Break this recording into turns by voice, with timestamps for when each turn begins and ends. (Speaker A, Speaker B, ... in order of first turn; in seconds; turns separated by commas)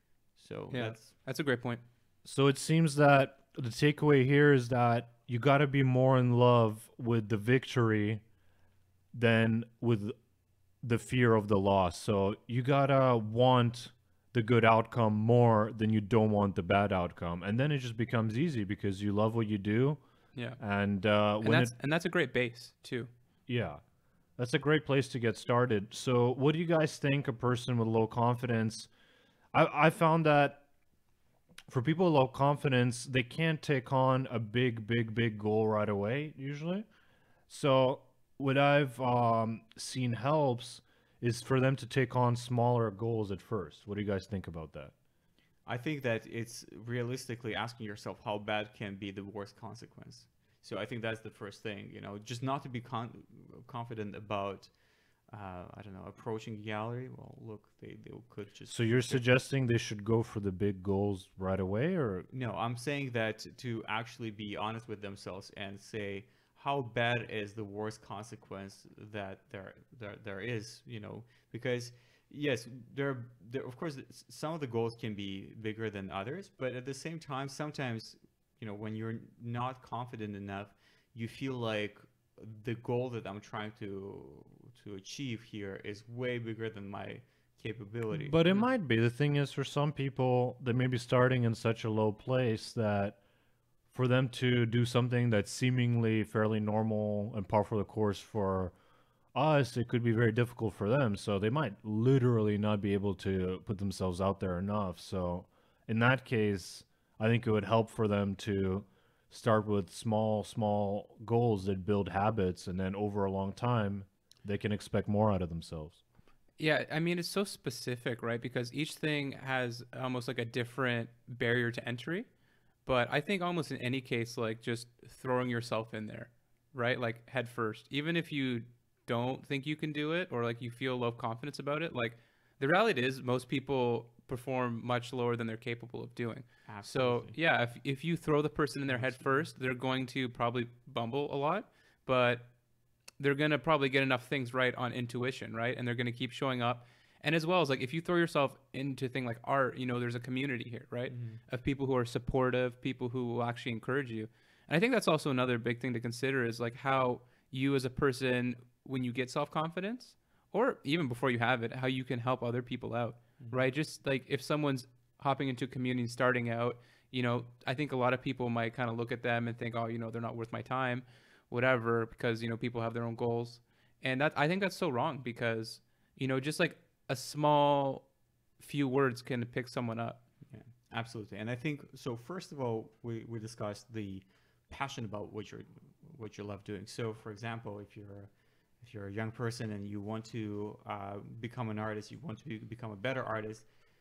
Speaker A: 0.4-1.1, Speaker B: 0.7-1.8, Speaker C: 2.2-8.2, Speaker C: 9.1-10.1, Speaker C: 10.8-20.0, Speaker B: 20.3-20.6, Speaker C: 20.6-21.7, Speaker B: 21.4-23.1, Speaker C: 23.5-23.8, Speaker C: 24.4-28.9, Speaker C: 29.5-30.6, Speaker C: 31.7-36.9, Speaker C: 37.5-44.9, Speaker A: 45.6-54.7, Speaker A: 55.3-59.2, Speaker C: 58.7-62.3, Speaker A: 62.3-88.7, Speaker C: 88.1-93.2, Speaker C: 93.9-98.7, Speaker C: 99.3-116.0, Speaker B: 116.6-122.3, Speaker B: 122.8-142.5, Speaker A: 136.7-137.3, Speaker A: 138.9-139.5, Speaker B: 143.2-178.1, Speaker A: 151.1-151.4, Speaker A: 163.4-163.7, Speaker B: 178.6-180.2, Speaker A: 180.5-193.7